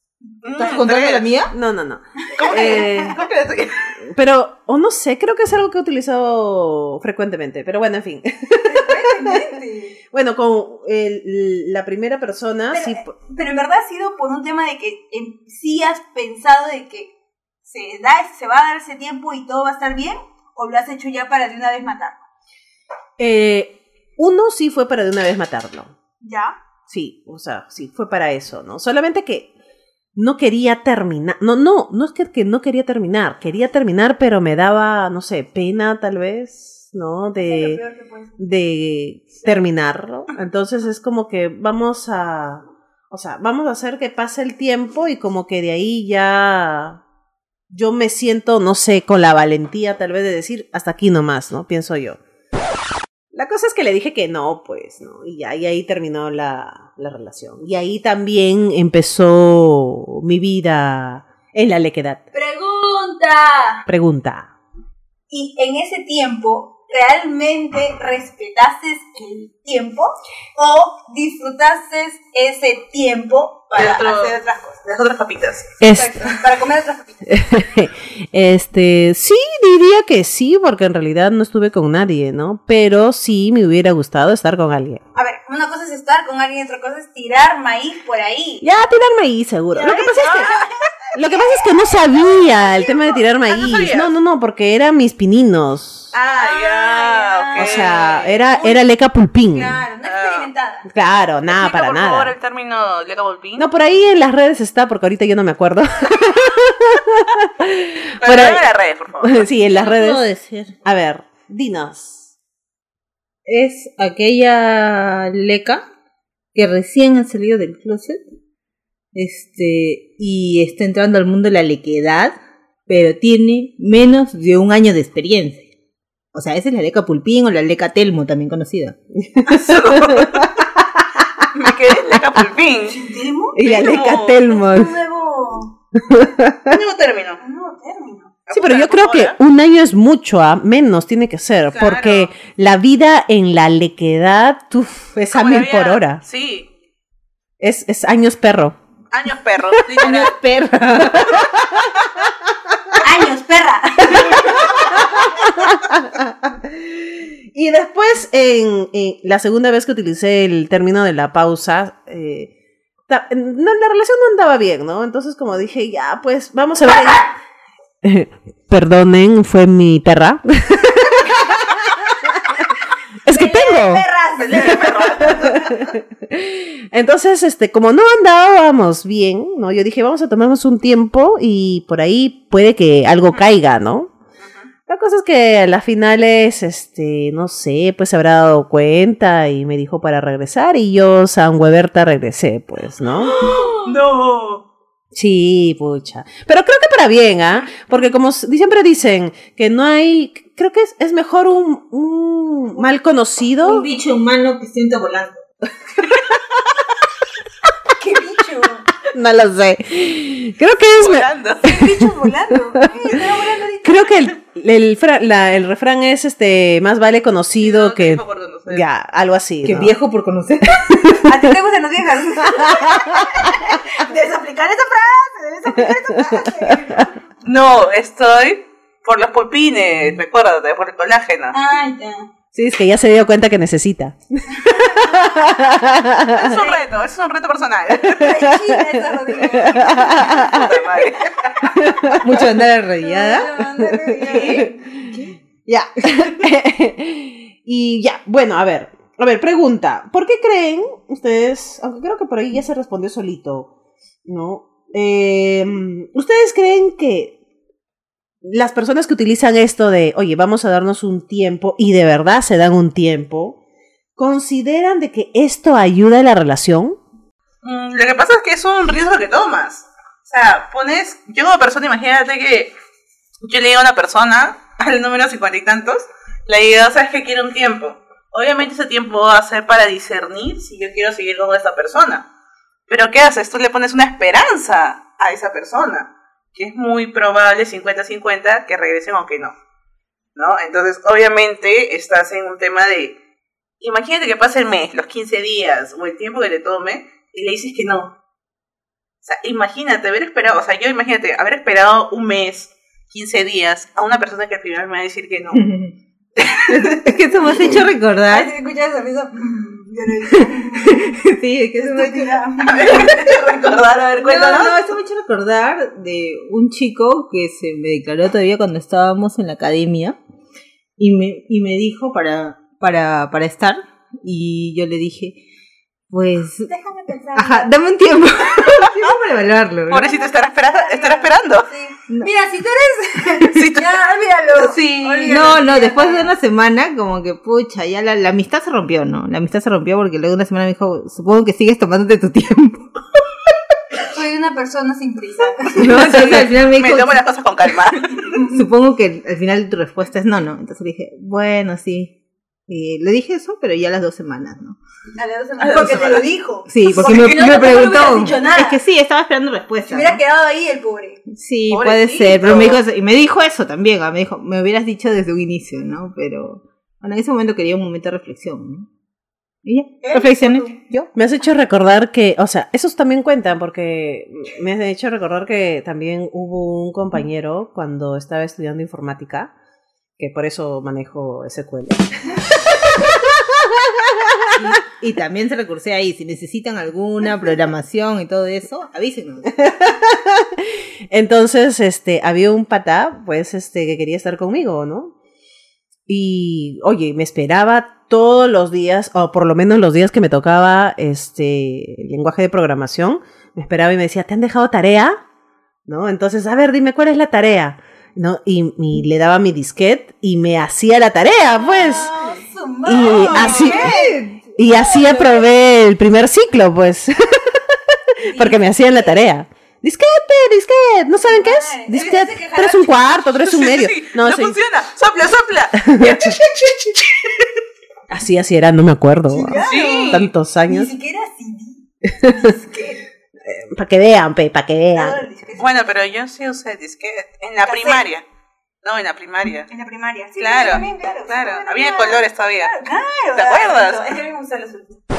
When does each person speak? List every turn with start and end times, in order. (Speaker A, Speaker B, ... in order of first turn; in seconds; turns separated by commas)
Speaker A: 0.4-1.4, Speaker B: 0.6-1.5, Speaker C: 1.5-3.2, Speaker D: 2.3-3.1, Speaker A: 2.4-4.0, Speaker C: 4.0-9.4, Speaker D: 8.6-10.0, Speaker C: 10.1-13.1, Speaker D: 12.7-17.1, Speaker D: 17.6-22.2, Speaker C: 23.2-25.9, Speaker D: 26.2-26.6, Speaker C: 26.9-29.5, Speaker C: 30.1-37.8, Speaker D: 37.4-38.4, Speaker C: 38.4-47.0, Speaker C: 47.7-52.2, Speaker C: 53.3-62.2, Speaker D: 62.3-63.9, Speaker C: 63.9-64.5, Speaker D: 65.3-74.8, Speaker A: 73.7-75.8, Speaker C: 75.8-76.2, Speaker D: 75.9-77.4, Speaker C: 77.3-85.0, Speaker D: 85.1-88.7, Speaker C: 88.6-90.5, Speaker D: 89.7-93.2, Speaker A: 90.1-90.5, Speaker C: 91.1-96.1, Speaker A: 93.5-94.1, Speaker A: 96.1-98.4, Speaker D: 96.3-98.8, Speaker C: 97.6-99.8, Speaker D: 99.5-100.9, Speaker A: 100.0-100.5, Speaker C: 100.9-102.3, Speaker A: 101.5-103.7, Speaker C: 103.5-108.7, Speaker A: 108.2-109.5, Speaker C: 109.2-112.3, Speaker B: 109.8-110.7, Speaker B: 113.5-115.8, Speaker B: 116.5-118.2, Speaker B: 119.1-125.7, Speaker B: 126.3-129.0, Speaker C: 129.2-131.2, Speaker A: 129.4-130.6, Speaker A: 131.5-133.0, Speaker D: 132.8-133.6, Speaker C: 133.5-135.0, Speaker A: 133.6-134.4, Speaker D: 134.4-135.8, Speaker C: 136.0-136.8, Speaker A: 136.7-137.4, Speaker D: 137.4-138.3, Speaker A: 138.5-139.3, Speaker C: 138.5-146.2, Speaker A: 141.7-142.3, Speaker A: 145.3-146.7, Speaker C: 147.6-148.8, Speaker A: 149.1-150.3, Speaker B: 150.0-151.4, Speaker C: 151.1-151.9, Speaker D: 153.0-155.1, Speaker C: 154.1-162.5, Speaker C: 163.1-167.3, Speaker C: 168.0-172.7, Speaker C: 173.2-174.0, Speaker D: 173.3-175.8, Speaker A: 174.4-175.6, Speaker C: 175.2-184.1, Speaker A: 184.4-184.7, Speaker C: 184.9-193.4, Speaker A: 193.3-194.6, Speaker C: 195.1-203.9, Speaker B: 203.6-205.4, Speaker D: 207.9-208.8, Speaker C: 209.1-212.9, Speaker A: 211.0-211.6, Speaker D: 211.6-214.2, Speaker C: 213.8-220.0, Speaker A: 217.6-218.8, Speaker B: 219.6-221.1, Speaker C: 220.8-221.4, Speaker D: 221.2-227.1, Speaker C: 222.5-223.4, Speaker C: 225.8-227.0, Speaker A: 227.4-231.6, Speaker D: 231.5-232.3, Speaker C: 232.5-236.6, Speaker D: 234.6-235.5, Speaker A: 236.4-238.3, Speaker D: 236.5-236.8, Speaker D: 238.0-240.6, Speaker C: 238.2-240.7, Speaker A: 240.2-241.6, Speaker C: 241.7-242.7, Speaker B: 242.2-243.5, Speaker D: 243.0-244.8, Speaker C: 243.4-245.1, Speaker B: 245.1-245.3, Speaker C: 245.6-253.7, Speaker C: 254.2-257.4, Speaker C: 258.4-263.6, Speaker C: 264.1-267.0, Speaker A: 267.6-272.7, Speaker A: 273.4-282.2, Speaker A: 282.9-289.5, Speaker A: 290.3-293.2, Speaker A: 293.8-298.1, Speaker A: 299.2-305.6, Speaker B: 305.5-305.9, Speaker B: 306.5-308.5, Speaker D: 308.3-313.3, Speaker B: 310.8-312.4, Speaker A: 312.6-314.8, Speaker B: 314.2-320.2, Speaker B: 321.0-325.4, Speaker B: 326.1-326.7, Speaker D: 326.6-327.8, Speaker B: 327.3-330.1, Speaker D: 328.4-328.8, Speaker A: 329.9-331.7, Speaker D: 330.0-336.3, Speaker A: 333.5-334.0, Speaker B: 334.6-343.0, Speaker A: 334.9-335.6, Speaker D: 344.1-346.4, Speaker B: 345.7-347.2, Speaker A: 346.0-348.3, Speaker B: 348.4-352.1, Speaker B: 352.7-354.8, Speaker D: 355.1-358.8, Speaker A: 355.6-356.3, Speaker B: 356.7-360.2, Speaker A: 356.9-357.6, Speaker D: 359.9-361.2, Speaker B: 361.3-368.9, Speaker A: 361.7-362.8, Speaker B: 369.6-371.1, Speaker D: 370.0-370.8, Speaker C: 371.1-379.5, Speaker C: 380.2-384.6, Speaker B: 384.5-389.5, Speaker C: 389.6-395.1, Speaker C: 396.1-405.2, Speaker C: 405.9-412.1, Speaker D: 411.5-415.4, Speaker C: 412.8-414.0, Speaker B: 413.3-414.5, Speaker C: 414.5-424.6, Speaker D: 418.2-419.2, Speaker D: 421.2-423.2, Speaker A: 423.4-427.5, Speaker C: 425.8-426.4, Speaker C: 428.1-430.9, Speaker D: 429.3-433.0, Speaker A: 429.6-430.3, Speaker C: 432.2-432.5, Speaker C: 433.4-435.2, Speaker D: 434.9-435.9, Speaker A: 435.6-438.2, Speaker D: 437.6-438.1, Speaker A: 438.8-439.7, Speaker D: 439.7-445.0, Speaker A: 440.4-442.7, Speaker A: 443.4-444.1